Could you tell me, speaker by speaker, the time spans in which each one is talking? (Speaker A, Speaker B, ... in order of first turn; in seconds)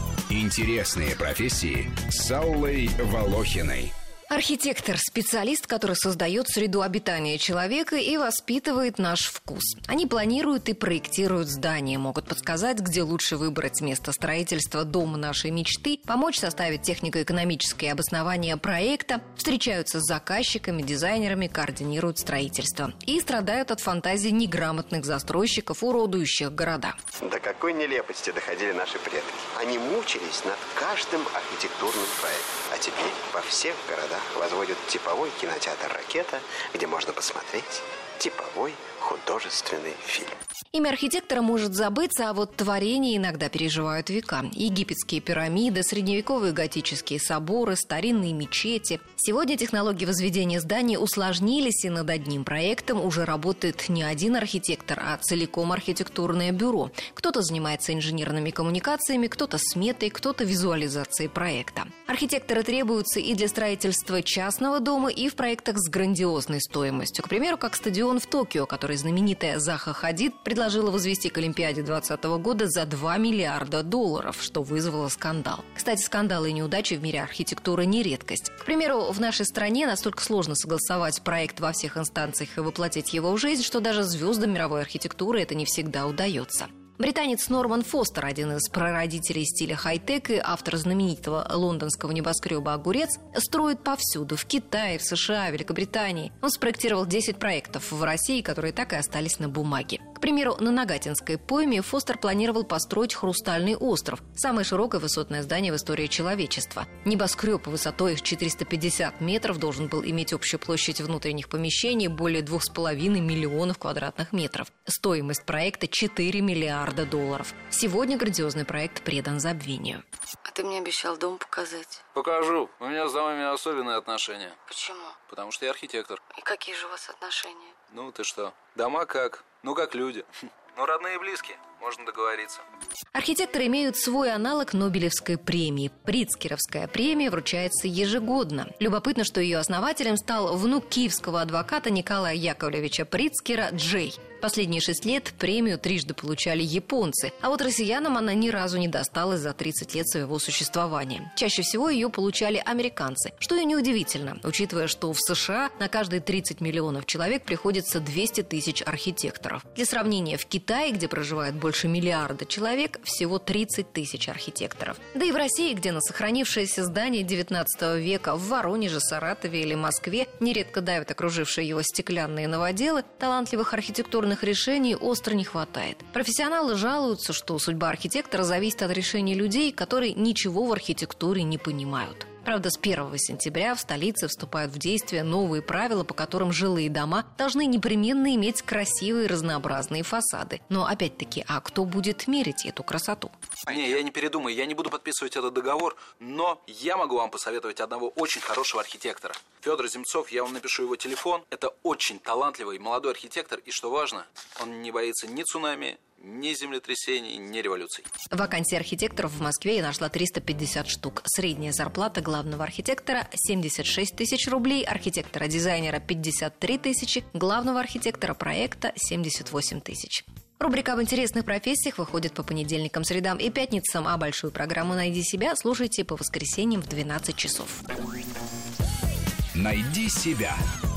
Speaker A: 0.3-3.9, 229.6-230.6
Speaker B: 4.3-26.9, 40.7-120.0, 133.1-193.3, 208.3-227.8
Speaker C: 27.2-40.4
Speaker D: 120.5-122.0, 124.7-125.2, 126.3-127.8
Speaker E: 122.1-124.6, 125.3-126.2, 127.9-132.6, 193.7-208.1